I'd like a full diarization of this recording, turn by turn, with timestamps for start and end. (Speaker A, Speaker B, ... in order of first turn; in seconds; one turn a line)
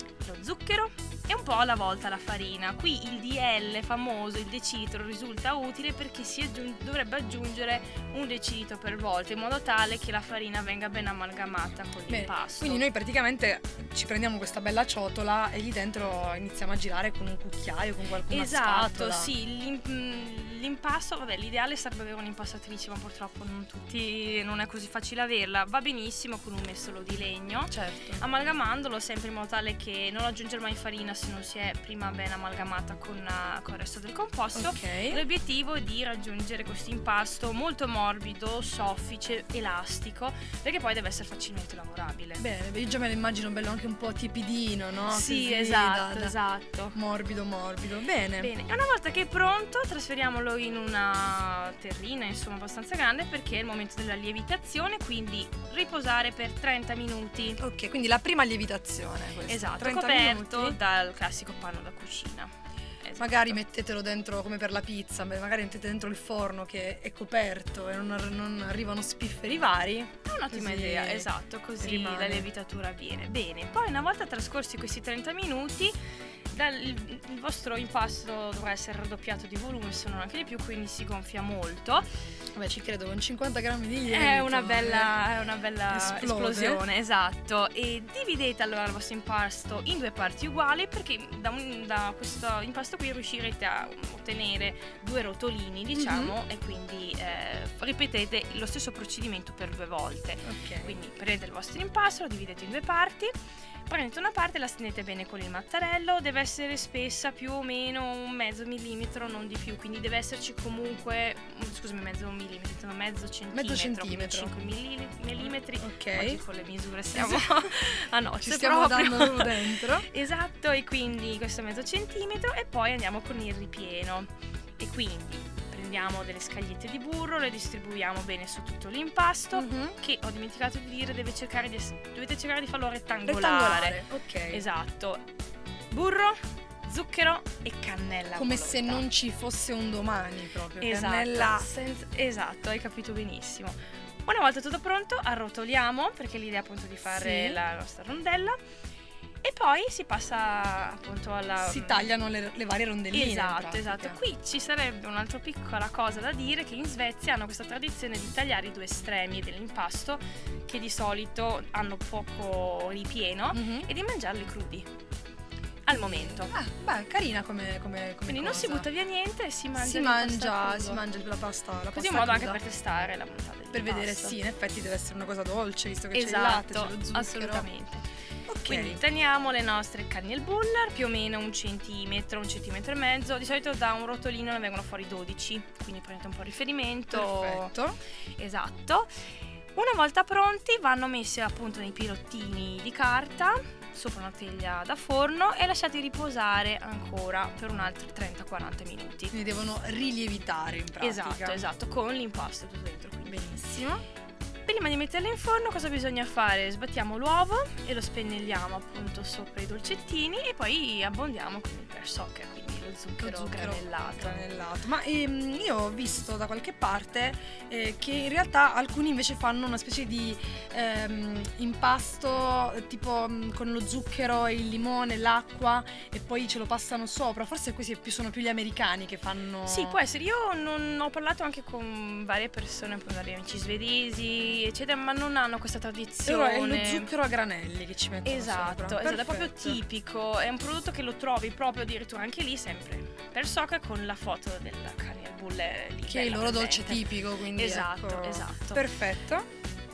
Speaker A: 0.2-12.8
Speaker B: 12.1-19.3
Speaker A: 18.3-42.4
Speaker B: 27.7-28.2
Speaker B: 34.6-35.2
Speaker B: 42.4-46.4
Speaker A: 45.1-47.0
Speaker B: 46.9-48.5
Speaker A: 48.4-57.6
Speaker B: 57.6-60.8
Speaker A: 59.5-63.6
Speaker B: 63.2-71.3
Speaker A: 70.2-76.0
Speaker B: 71.8-72.5
Speaker A: 76.5-82.1
Speaker B: 82.5-85.1
Speaker A: 84.1-103.3
Speaker B: 85.9-86.8
Speaker B: 96.0-96.3
Speaker B: 100.4-101.0
Speaker A: 103.9-135.2
Speaker B: 113.5-114.5
Speaker B: 115.8-116.4
Speaker B: 117.1-117.8
Speaker B: 118.4-120.1
Speaker B: 129.5-130.0
Speaker B: 133.3-134.7
Speaker A: 135.9-139.1
Speaker B: 138.3-141.7
Speaker A: 140.8-148.6
Speaker B: 147.1-147.6
Speaker A: 149.4-152.1
Speaker B: 151.6-154.2
Speaker A: 153.1-164.9
Speaker B: 163.5-163.9
Speaker A: 165.8-166.5
Speaker B: 165.9-168.9
Speaker A: 168.3-171.0
Speaker B: 169.8-172.6
Speaker A: 171.9-174.4
Speaker B: 173.7-177.7
Speaker A: 176.1-178.1
Speaker B: 178.5-179.0
Speaker A: 178.7-187.7
Speaker B: 187.1-188.0
Speaker A: 188.4-189.1
Speaker A: 189.8-199.3
Speaker B: 199.3-201.6
Speaker A: 201.0-203.5
Speaker B: 203.3-204.0
Speaker A: 204.7-214.4
Speaker B: 213.2-230.0
Speaker A: 229.7-237.1
Speaker B: 236.2-239.8
Speaker A: 238.2-248.9
Speaker B: 246.1-249.5